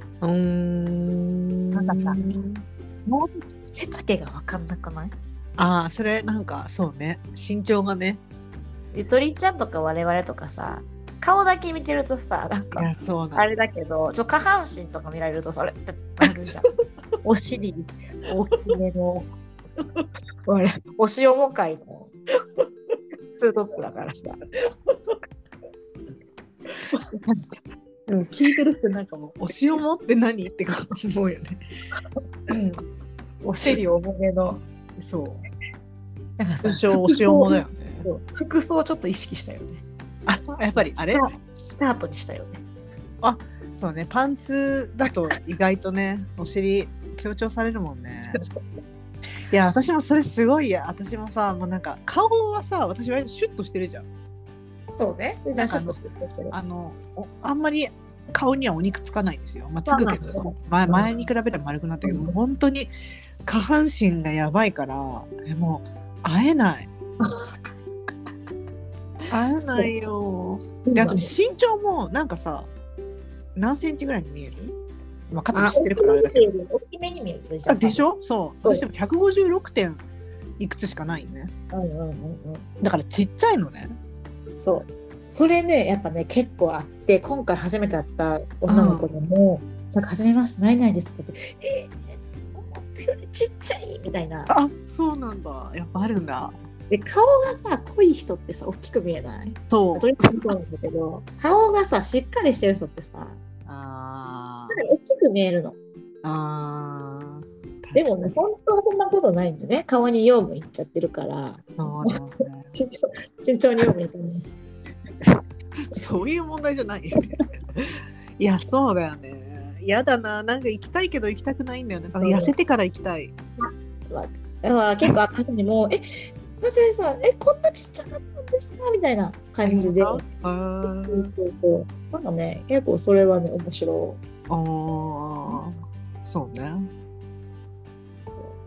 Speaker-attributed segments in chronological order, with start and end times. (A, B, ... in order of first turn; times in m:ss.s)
0:00.2-0:02.6 A
0:01.7-0:02.4 B
0:03.0-0:05.1 B
0:05.6-0:08.2 A
0:08.9-0:16.7 B
0:12.8-0:13.5 A
0:17.2-0:19.3 B
0:20.4-0:22.1 B
0:23.3-0:24.4 B
0:27.1-0:27.6 B
0:28.1-0:31.6 A
0:29.5-0:29.8 B
0:32.5-0:32.8 A
0:33.4-0:34.6 B
0:35.0-0:35.4 A
0:36.4-0:39.8 B
0:36.6-0:38.1 A
0:40.2-0:41.3 A
0:40.6-0:42.6 B
0:43.2-0:48.4 A
0:48.2-0:48.8 B
0:49.5-0:54.0 A
0:54.9-0:56.5 B
0:55.5-0:56.0 A
0:56.5-1:02.9 A
0:59.8-1:01.1 B
1:02.0-1:02.3 B
1:03.4-1:06.9 A
1:07.2-1:07.5 B
1:09.3-1:12.7 A
1:09.6-1:09.9 B
1:10.8-1:11.3 B
1:13.6-1:14.7 A
1:15.3-1:16.5 A
1:15.5-1:18.0 B
1:17.7-1:20.0 A
1:20.6-1:21.5 A
1:21.7-1:22.7 B
1:22.8-1:23.9 A
1:24.6-1:34.5 B
1:28.7-1:29.1 A
1:34.5-1:36.5 A
1:36.9-1:43.4 B
1:39.7-1:40.5 A
1:43.6-1:44.8 A
1:44.7-1:45.8 B
1:46.2-1:48.4 A
1:47.9-1:52.2 B
1:51.8-1:52.7 A
1:52.7-1:54.6 B
1:55.2-2:03.3 A
2:02.2-2:02.5 B
2:03.6-2:10.2 B
2:09.6-2:11.3 A
2:11.0-2:14.2 B
2:14.5-2:16.9 A
2:18.1-2:18.5 B